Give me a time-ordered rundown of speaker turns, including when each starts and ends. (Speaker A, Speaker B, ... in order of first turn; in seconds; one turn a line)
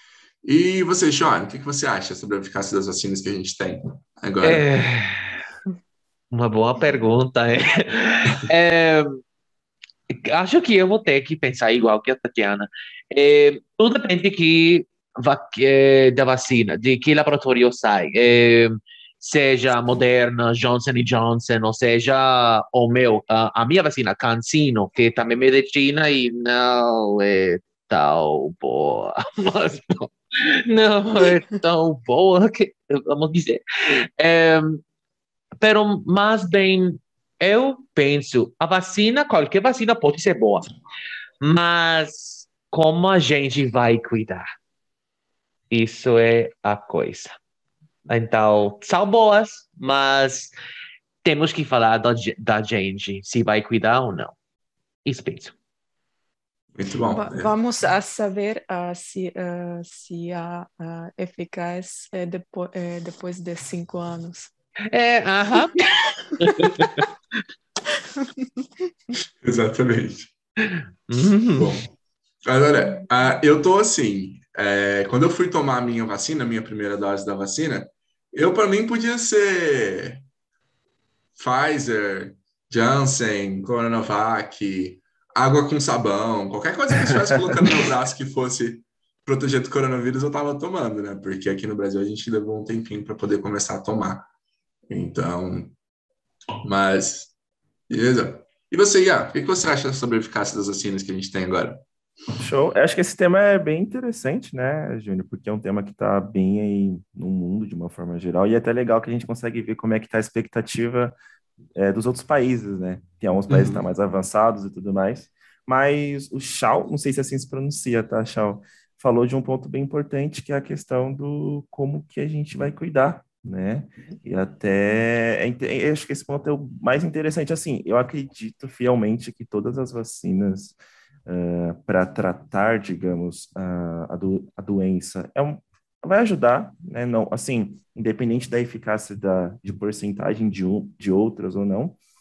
Speaker A: 0.4-4.7
Speaker B: 4.4-5.4
Speaker B: 6.3-9.2
Speaker B: 10.1-34.8
Speaker B: 35.6-40.7
Speaker B: 41.4-44.4
Speaker B: 45.7-47.3
Speaker B: 48.1-50.5
Speaker B: 51.2-54.3
Speaker B: 55.0-55.5
Speaker A: 56.7-57.5
Speaker C: 57.1-64.5
Speaker B: 64.9-66.9
Speaker C: 66.2-67.0
Speaker C: 68.0-68.7
Speaker A: 69.4-70.3
Speaker B: 70.7-71.7
Speaker A: 71.5-71.9
Speaker A: 72.4-80.2
Speaker A: 81.4-94.3
Speaker A: 94.9-95.7
Speaker A: 96.6-97.3
Speaker A: 97.9-101.8
Speaker D: 102.4-111.2
Speaker D: 111.8-142.0